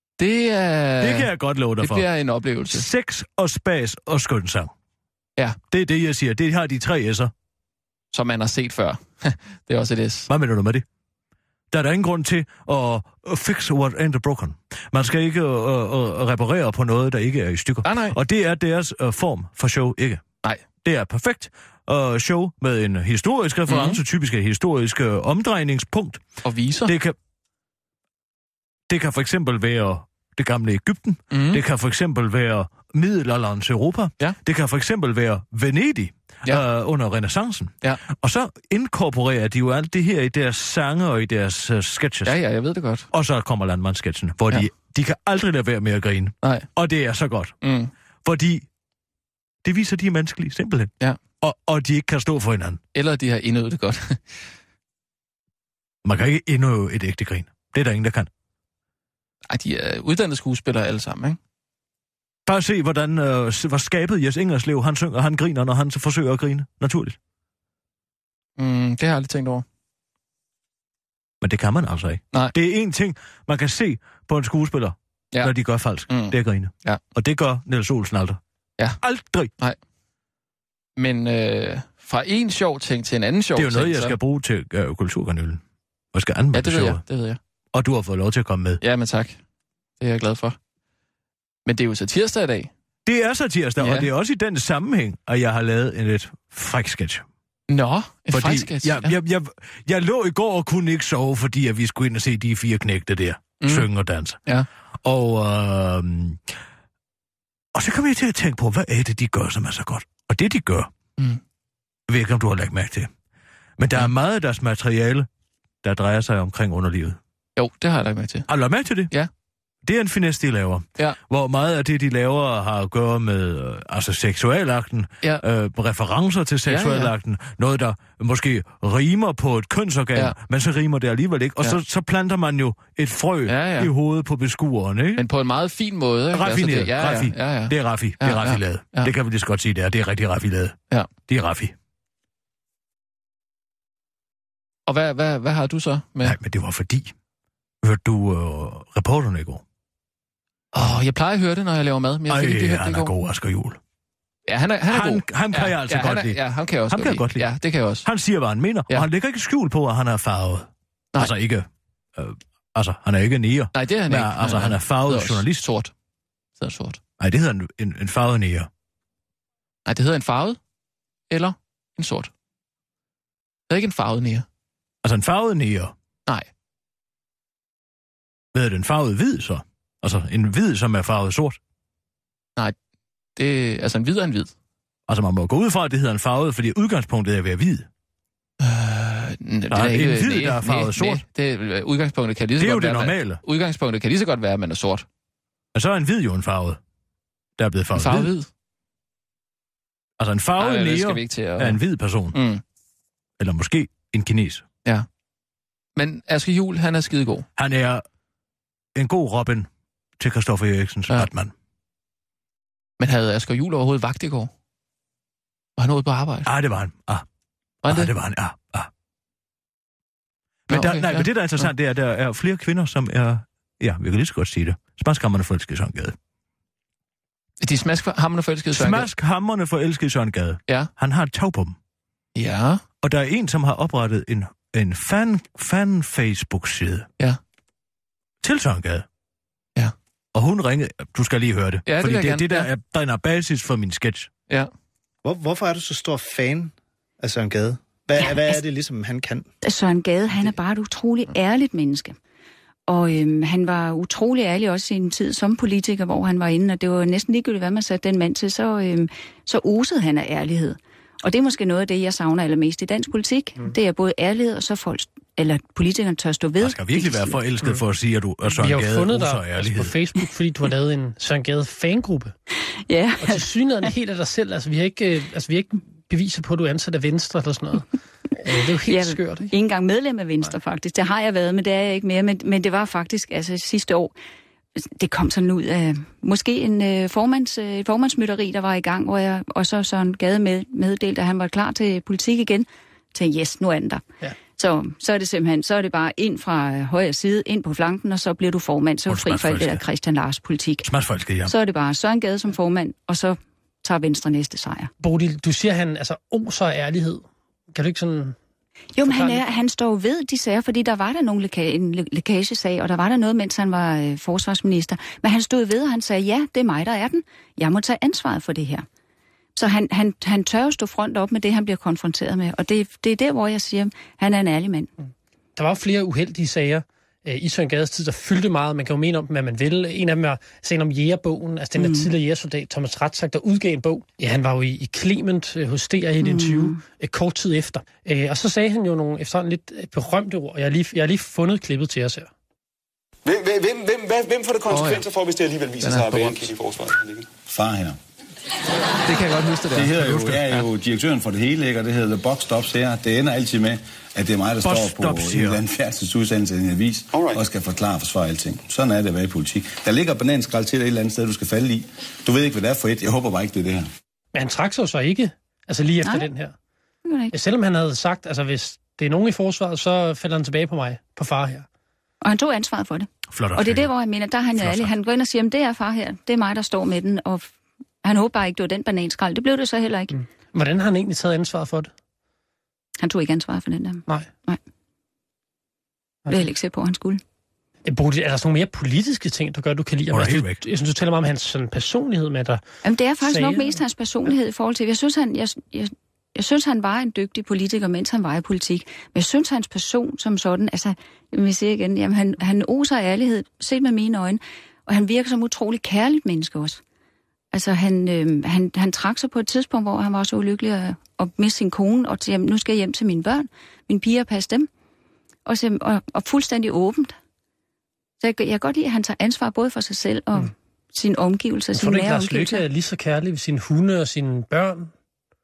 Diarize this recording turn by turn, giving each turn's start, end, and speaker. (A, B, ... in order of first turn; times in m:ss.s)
0:00.2-0:02.8 A
0:01.0-0:02.1 B
0:02.6-0:04.7 B
0:05.7-0:07.3 B
0:08.1-0:10.3 A
0:10.3-0:10.8 B
0:11.7-0:20.2 B
0:17.8-0:18.2 A
0:20.8-0:26.2 B
0:23.7-0:24.0 A
0:26.4-0:26.9 A
0:26.8-0:27.2 B
0:28.9-0:42.4 B
0:31.3-0:31.6 A
0:42.2-0:43.1 A
0:43.1-0:47.6 B
0:46.4-0:46.7 A
0:47.6-0:47.9 A
0:48.2-0:48.6 B
0:49.6-0:52.8 B
0:52.9-0:54.2 A
0:56.0-0:58.3 B
0:59.5-1:01.4 A
1:02.5-1:07.2 B
1:08.6-1:09.6 A
1:11.4-1:18.4 B
1:16.1-1:17.0 A
1:19.0-1:19.5 B
1:21.0-1:24.2 A
1:23.6-1:25.6 B
1:26.1-1:27.0 B
1:26.5-1:27.4 A
1:27.7-1:28.8 B
1:28.8-1:29.4 A
1:30.0-1:30.6 A
1:31.6-1:32.7 A
1:33.0-1:37.2 B
1:33.8-1:34.1 A
1:37.7-1:39.1 A
1:38.3-1:44.4 B
1:43.6-1:43.9 A
1:45.0-1:46.4 B
1:47.7-1:50.9 B
1:52.1-1:53.1 B
1:53.8-1:55.3 B
1:55.8-1:57.2 B
1:57.6-1:58.5 A
1:58.5-1:59.1 B
1:59.8-2:15.2 B
2:06.7-2:07.1 A
2:13.5-2:13.9 A
2:15.2-2:19.1 A
2:16.3-2:20.8 B
2:21.3-2:21.7 B
2:24.9-2:26.4 A
2:26.2-2:27.1 B
2:27.8-2:29.6 B
2:30.7-2:33.1 A
2:32.3-2:33.8 B
2:34.5-2:38.1 A
2:34.9-2:37.5 B
2:38.0-2:45.6 B
2:43.8-2:45.9 A
2:46.6-2:47.0 A
2:47.2-2:48.7 B
2:49.8-2:50.6 A
2:51.3-2:52.3 A
2:53.7-2:54.4 A
2:55.0-2:55.9 B
2:58.5-3:01.6 B
3:03.4-3:04.5 A
3:05.1-3:07.9 B
3:08.6-3:15.1 A
3:09.7-3:11.2 B
3:12.6-3:13.4 B
3:15.7-3:16.8 B
3:17.6-3:18.3 B
3:17.9-3:18.5 A
3:20.2-3:22.4 B
3:20.6-3:21.8 A
3:22.3-3:22.6 A
3:23.4-3:24.6 B
3:26.0-3:27.4 A
3:27.6-3:28.0 B
3:28.9-3:31.5 B
3:33.0-3:34.5 A
3:35.8-3:36.5 A
3:36.4-3:37.2 B
3:37.8-3:38.9 B
3:37.8-3:38.1 A
3:40.7-3:41.7 A
3:40.7-3:46.2 B
3:47.6-3:49.1 A
3:48.7-3:51.8 B
3:52.3-3:52.8 A
3:53.0-3:57.1 B
3:58.4-3:59.1 B
4:00.3-4:04.3 B
4:01.8-4:02.7 A
4:05.2-4:09.4 C
4:09.6-4:12.2 D
4:12.9-4:27.4 D
4:26.6-4:29.9 B
4:28.5-4:32.3 E
4:32.9-4:33.5 D
4:33.2-4:37.8 E
4:38.4-4:39.5 E
4:38.9-4:44.1 D
4:44.8-4:54.0 D
4:54.6-5:00.9 D
4:59.1-4:59.8 B
5:00.8-5:01.5 B
5:01.4-5:04.9 D
5:05.0-5:08.4 E
5:08.9-5:18.8 D
5:09.1-5:09.5 E
5:19.6-5:24.9 D
5:25.6-5:42.3 E
5:31.8-5:32.1 D
5:36.2-5:36.8 D
5:43.2-5:47.3 F
5:44.7-5:45.0 A
5:45.8-5:46.4 A
5:47.4-5:48.0 G
5:49.0-5:50.7 A
5:49.7-6:03.9 G
5:50.0-5:50.4 B
5:54.6-5:55.6 B
5:57.1-5:57.4 F
6:04.3-6:06.5 E
6:06.0-6:06.3 D
6:07.0-6:07.3 D
6:07.3-6:11.7 E
6:12.2-6:17.5 D
6:13.3-6:13.9 B
6:14.6-6:14.9 B
6:18.0-6:20.2 D
6:20.1-6:21.9 E
6:23.0-6:24.6 D
6:26.3-6:27.2 D
6:27.8-6:32.6 E
6:30.1-6:30.6 B
6:32.8-6:46.8 D
6:33.2-6:33.8 E
6:47.5-6:54.7 D
6:55.4-6:57.2 D
6:58.2-7:02.6 D
7:01.7-7:04.9 E